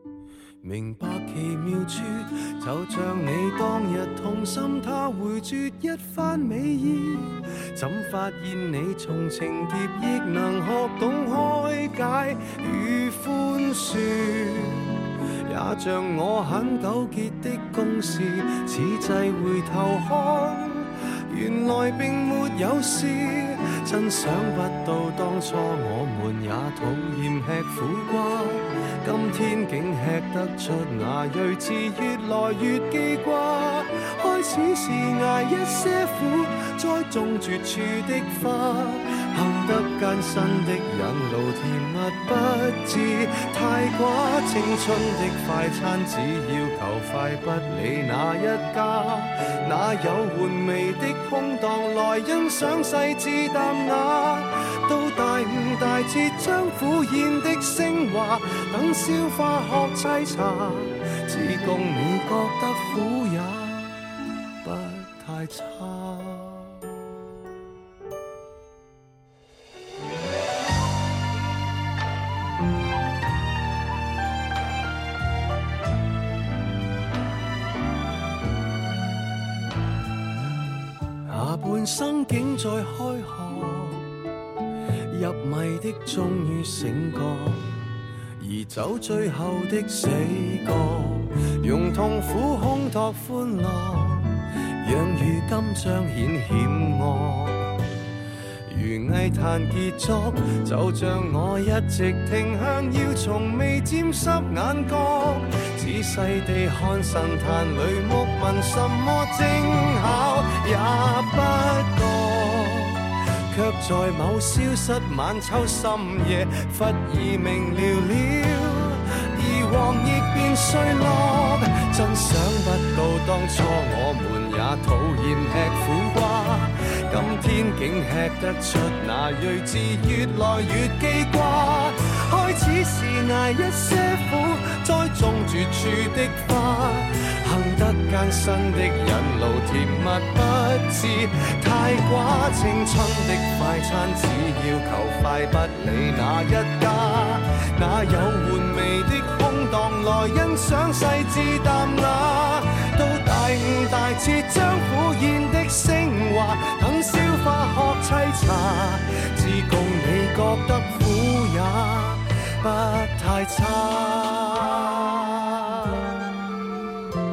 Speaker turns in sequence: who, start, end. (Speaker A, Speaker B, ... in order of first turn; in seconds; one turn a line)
Speaker A: 0.6-64.0
Speaker A: 64.6-66.8
Speaker A: 81.2-84.2
Speaker A: 85.1-87.8
Speaker A: 88.4-97.7
Speaker A: 98.7-166.4